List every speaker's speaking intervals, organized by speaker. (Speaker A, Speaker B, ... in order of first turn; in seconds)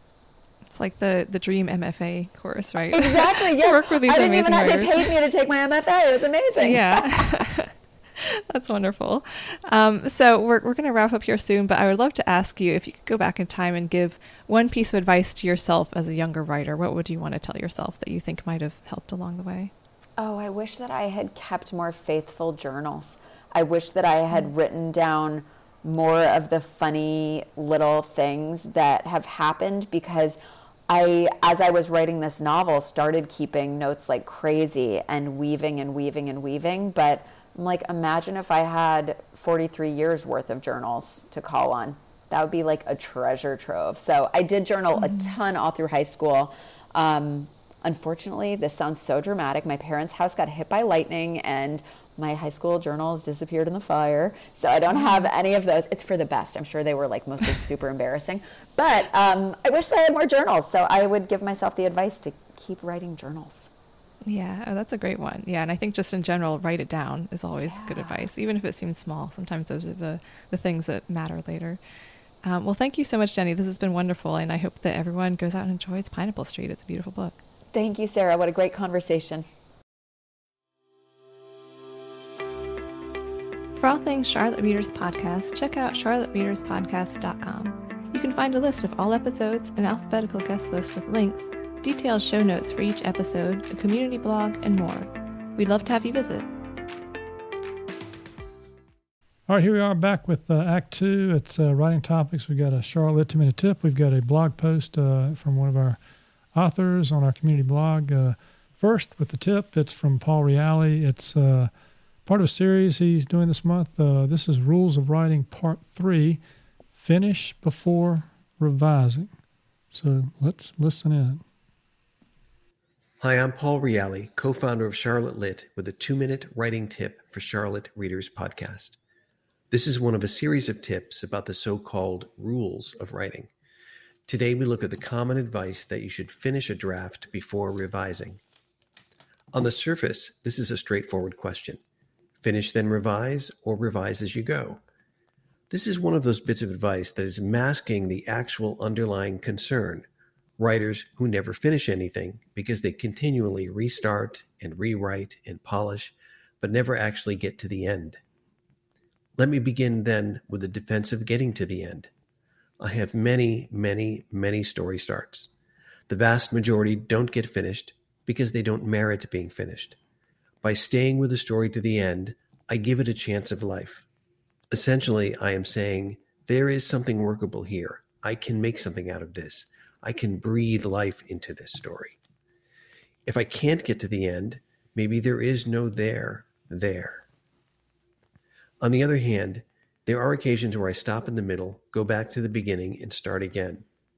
Speaker A: 0.7-5.1, 6.6-19.7, 45.0-45.3, 55.0-55.2, 64.2-71.8, 72.4-77.4, 83.8-96.5
Speaker B: 2.9-7.3, 20.2-63.7, 67.6-68.3, 77.7-79.4
Speaker C: 99.5-106.0, 106.5-111.7, 112.2-116.4, 117.0-119.3, 119.9-121.4
Speaker D: 123.2-129.0, 129.7-133.5, 134.3-138.4, 139.5-141.8, 142.4-144.8, 145.7-150.1, 150.6-158.2, 159.4-162.1, 162.8-165.5, 166.1-170.0, 170.6-174.1, 174.7-182.2, 183.2-187.3, 188.8-193.8